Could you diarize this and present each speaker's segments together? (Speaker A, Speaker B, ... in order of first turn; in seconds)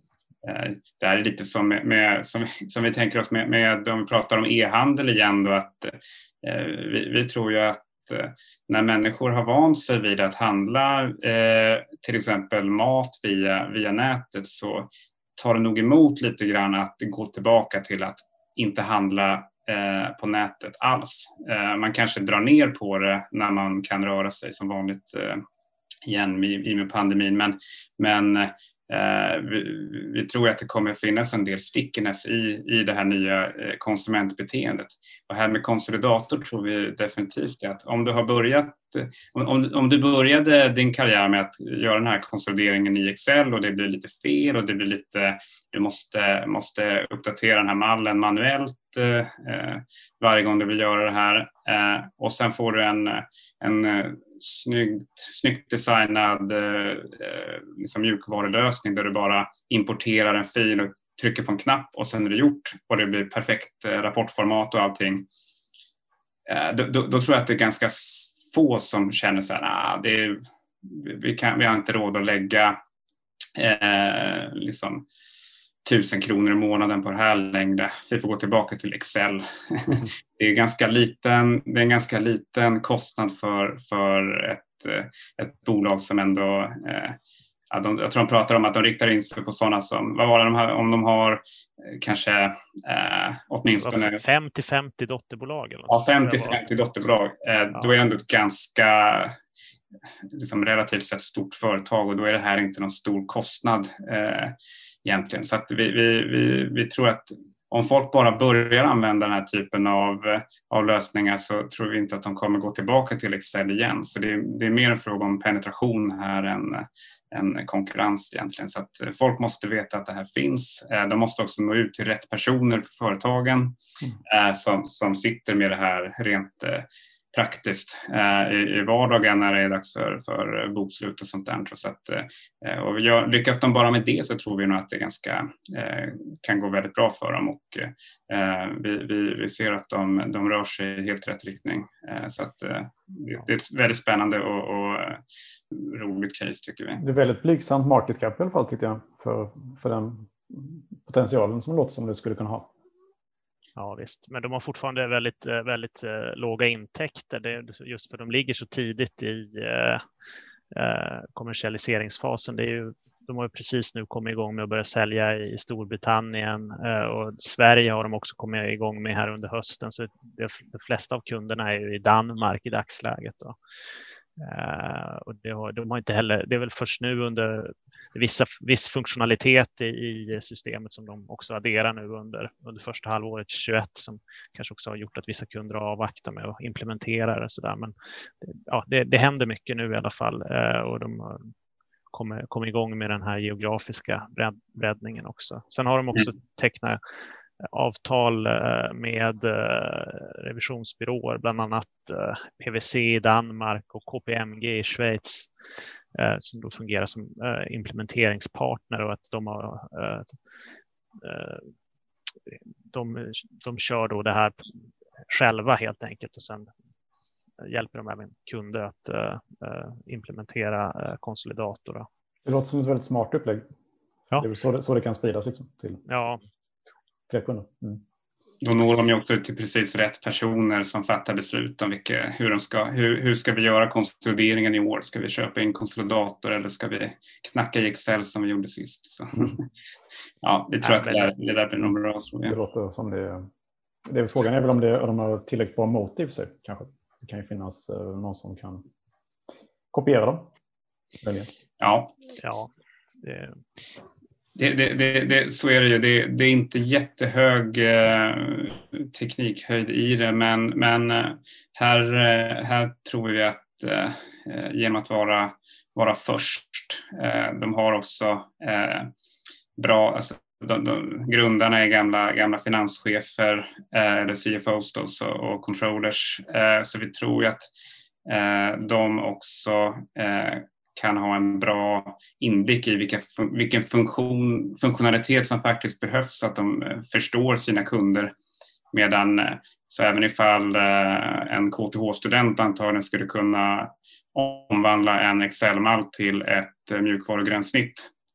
Speaker A: 0.4-25.4, 26.0-65.3, 66.5-72.8, 73.5-75.0, 75.8-87.2, 87.7-94.2, 95.9-99.3, 100.3-147.0, 228.6-239.6, 240.4-242.6, 251.8-252.2, 254.6-269.1, 269.8-277.7, 278.2-288.3, 288.9-298.1
Speaker B: 93.7-96.6, 153.8-160.1, 160.7-173.6, 174.4-191.5, 192.1-197.0, 197.6-205.5, 206.1-210.4, 211.2-211.7, 212.5-214.7, 215.3-216.7, 217.6-222.1, 226.1-226.4, 240.8-241.3, 252.4-253.6
Speaker C: 147.0-152.7, 222.4-223.7, 224.4-226.2, 227.3-228.0, 242.4-243.5, 244.1-248.8, 249.9-250.5, 251.2-251.5